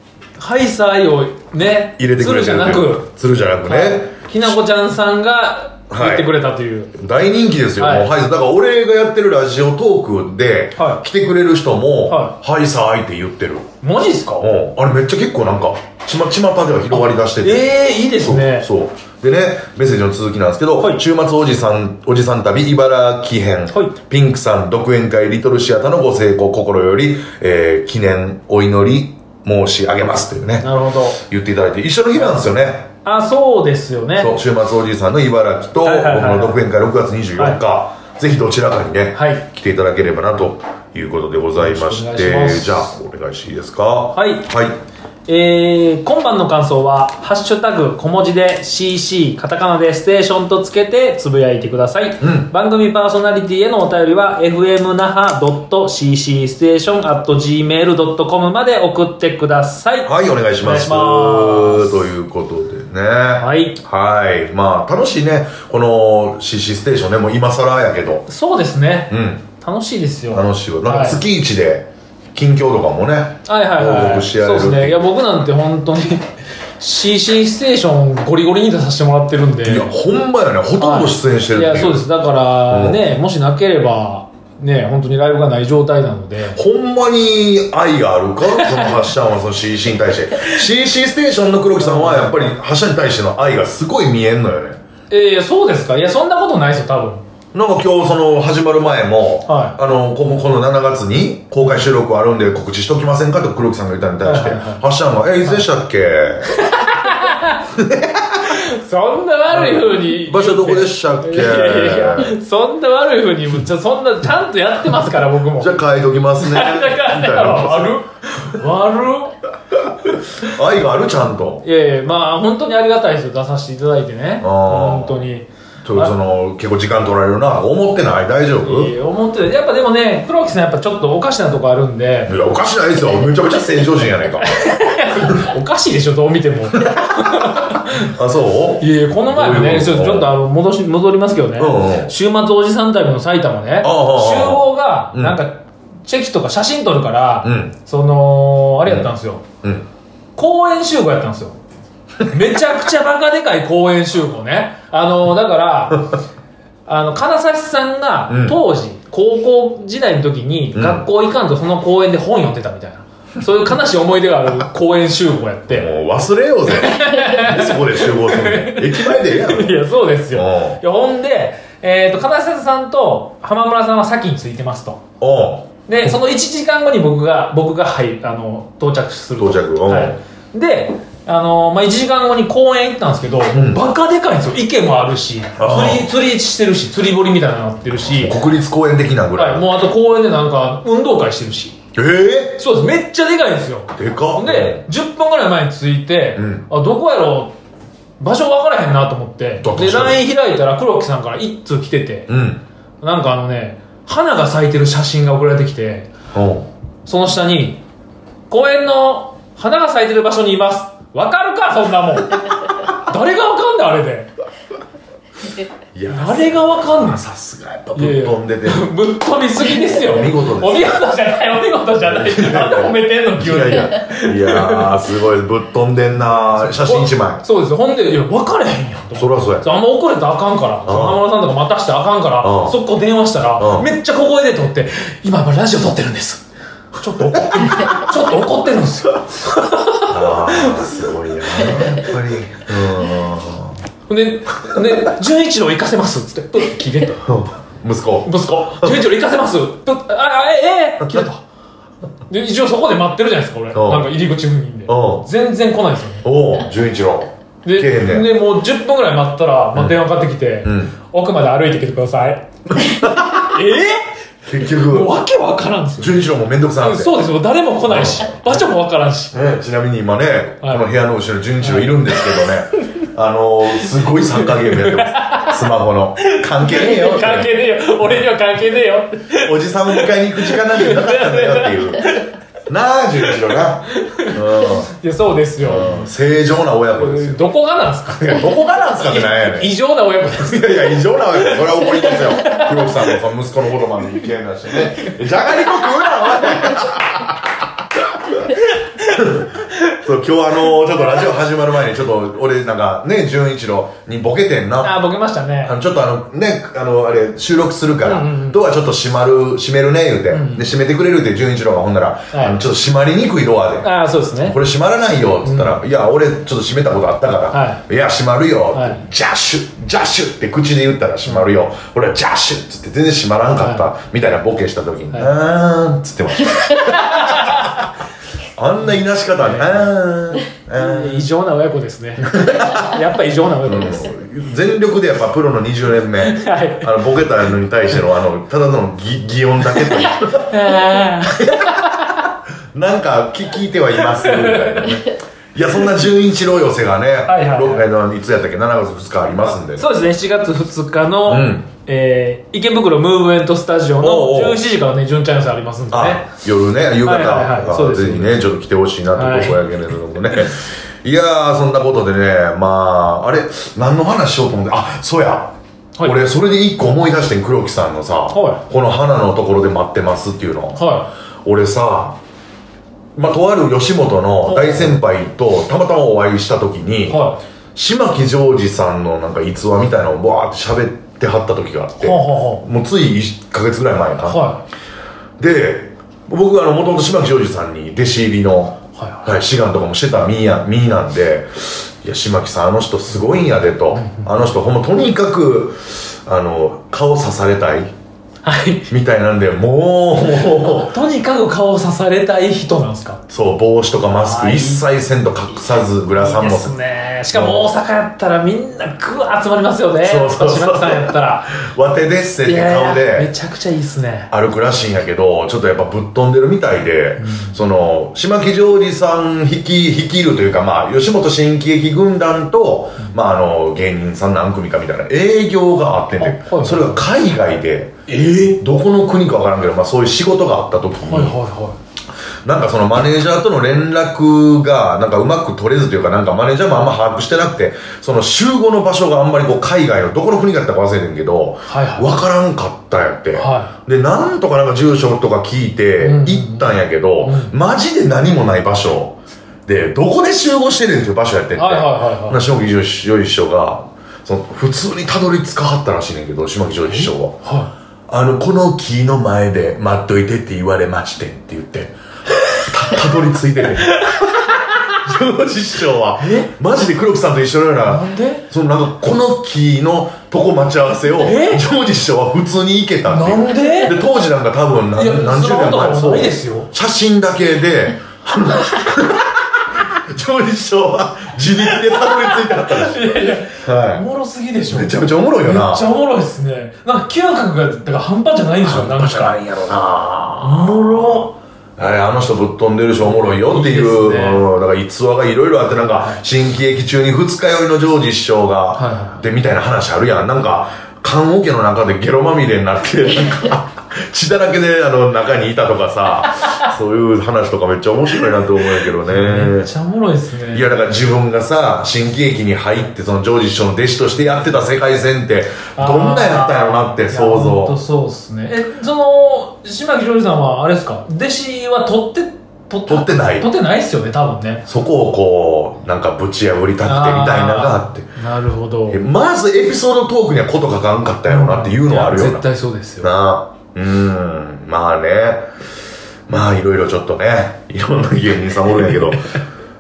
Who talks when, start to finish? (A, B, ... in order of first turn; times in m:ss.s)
0:00.4-0:03.1 A
0:02.0-0:04.6 B
0:03.6-0:07.0 A
0:05.9-0:06.3 B
0:06.9-0:13.7 B
0:07.8-0:08.1 A
0:10.8-0:11.0 A
0:12.1-0:12.4 A
0:13.8-0:14.5 A
0:14.4-0:32.9 B
0:16.9-0:18.7 A
0:20.8-0:21.0 A
0:30.6-0:31.2 A
0:32.2-0:32.5 A
0:33.0-0:34.3 A
0:34.2-0:44.8 B
0:35.8-0:36.6 A
0:39.1-0:39.4 A
0:41.6-0:42.9 A
0:44.1-0:44.5 A
0:45.3-1:02.1 A
0:52.2-0:52.5 B
1:00.0-1:08.3 B
1:03.4-1:03.8 A
1:08.3-1:11.2 A
1:09.1-1:09.4 B
1:10.3-1:15.0 B
1:13.5-1:19.9 A
1:19.6-1:22.1 B
1:20.8-1:26.6 A
1:22.7-1:23.0 B
1:26.6-1:34.8 B
1:28.5-1:29.0 A
1:31.8-1:32.6 A
1:35.1-1:37.2 A
1:37.5-1:46.5 B
1:39.5-1:39.8 A
1:44.2-1:44.8 A
1:46.5-1:47.7 A
1:47.7-1:48.6 B
1:48.4-1:55.8 A
1:49.5-1:52.4 B
1:55.6-1:58.0 B
1:56.4-1:59.4 A
1:59.7-2:01.6 B
2:01.6-2:06.2 A
2:04.4-2:05.2 B
2:05.8-2:08.9 B
2:08.6-2:12.4 A
2:12.3-2:14.5 B
2:14.4-2:18.1 A
2:16.9-2:20.3 B
2:18.8-2:29.4 A
2:21.6-2:22.1 B
2:23.8-2:25.4 B
2:27.4-2:27.7 B
2:28.8-2:29.1 B
2:29.6-2:29.9 B
2:30.4-2:31.6 A
2:32.2-2:36.1 A
2:36.9-2:45.9 A
2:38.3-2:38.6 B
2:40.7-2:41.1 B
2:45.7-2:50.8 B
2:46.7-2:55.0 A
2:55.2-2:55.7 B
2:55.9-3:08.4 A
2:59.4-3:00.2 B
3:03.5-3:03.8 B
3:05.6-3:06.1 B
3:08.0-3:09.7 B
3:09.4-3:11.8 A
3:12.0-3:12.6 B
3:12.6-3:17.6 A
3:14.0-3:14.9 B
3:16.4-3:16.7 B
3:18.2-3:22.3 A
3:19.6-3:20.2 B
3:22.3-3:22.6 B
3:23.0-3:26.1 A
3:26.3-3:26.7 B
3:27.1-3:27.8 A
3:28.5-3:34.3 A
3:35.9-3:38.9 B
3:36.1-3:37.2 A
3:38.0-3:45.0 A
3:39.9-3:40.9 B
3:42.0-3:47.4 B
3:46.2-3:56.4 A
3:49.2-3:49.7 B
3:50.8-3:51.2 B
3:52.4-3:52.8 B
3:53.6-3:53.9 B
3:57.0-4:01.0 A
3:57.2-3:58.1 B
4:00.1-4:03.8 B
4:01.6-4:02.0 A
4:04.1-4:07.2 A
4:07.2-4:09.0 B
4:08.2-4:11.4 A
4:12.3-4:16.3 A
4:13.7-4:14.1 B
4:14.9-4:15.3 B
4:16.2-4:18.3 B
4:17.6-4:24.1 A
4:20.6-4:20.9 B
4:22.7-4:23.6 B
4:24.4-4:25.2 B
4:24.7-4:26.2 A
4:26.0-4:27.2 B
4:26.8-4:29.4 A
4:27.9-4:28.6 B
4:29.3-4:37.5 B
4:30.6-4:30.9 A
4:31.6-4:32.4 A
4:34.4-4:35.6 A
4:36.3-4:42.3 A
4:39.4-4:44.9 B
4:43.9-4:46.1 A
4:45.6-4:47.5 B
4:46.9-4:53.1 A
4:48.2-4:49.7 B
4:50.4-4:58.6 B
4:59.1-5:05.0 B
5:04.8-5:05.8 A
5:05.6-5:27.8 B
5:08.0-5:08.6 A
5:10.3-5:10.7 A
5:12.3-5:12.6 A
5:13.8-5:14.6 A
5:15.4-5:15.8 A
5:17.5-5:17.8 A
5:18.7-5:19.0 A
5:23.6-5:23.9 A
5:26.8-5:27.9 A
5:28.6-5:31.3 B
5:29.4-5:29.9 A
5:30.8-5:34.1 A
5:32.3-5:32.9 B
5:33.6-5:40.6 B
5:36.2-5:37.0 A
5:40.0-5:42.3 A
5:41.4-5:41.9 B
5:42.7-5:49.9 B
5:44.2-5:45.0 A
5:47.3-5:47.9 A
5:49.5-5:56.3 A
5:51.3-5:51.7 B
5:54.0-5:54.6 B
5:55.9-6:10.9 B
5:57.0-5:58.5 A
5:59.2-5:59.6 A
6:08.3-6:08.6 A
6:10.8-6:11.1 A
6:11.4-6:12.2 B
6:13.2-6:24.4 B
6:14.4-6:15.0 A
6:17.1-6:17.4 A
6:22.0-6:22.6 A
6:24.3-6:24.6 A
6:25.4-6:37.9 B
6:29.0-6:29.3 A
6:34.0-6:34.3 A
6:38.4-6:38.9 A
6:38.9-6:40.9 B
6:40.6-6:43.2 A
6:43.3-6:46.8 B
6:44.2-6:44.8 A
6:46.1-6:51.5 A
6:47.3-6:47.7 B
6:50.0-6:53.3 B
6:52.4-6:54.3 A
6:54.3-7:11.4 B
6:57.2-6:57.5 A
7:06.2-7:07.1 A
7:08.1-7:08.6 A
7:11.0-7:11.8 A
7:12.4-7:37.4 B
7:21.7-7:22.2 A
7:23.4-7:23.7 A
7:26.0-7:27.5 A
7:31.6-7:32.4 A
7:36.9-7:37.7 A
7:38.1-7:42.0 B
7:42.5-8:04.0 B
7:43.9-7:44.3 A
7:46.2-7:46.5 A
7:47.9-7:48.5 A
7:51.2-7:51.7 A
7:53.1-7:54.0 A
7:55.0-7:56.7 A
8:01.6-8:09.4 A
8:04.7-8:05.9 B
8:08.6-8:29.7 B
8:10.4-8:11.4 A
8:13.0-8:14.4 A
8:18.8-8:19.3 A
8:29.0-8:30.7 A
8:30.5-8:37.8 B
8:35.8-8:44.7 A
8:42.9-8:43.5 B
8:44.7-8:48.1 B
8:46.8-8:49.0 A
8:48.9-8:52.4 B
8:51.3-8:53.1 A
8:53.0-8:55.5 B
8:56.3-8:59.3 B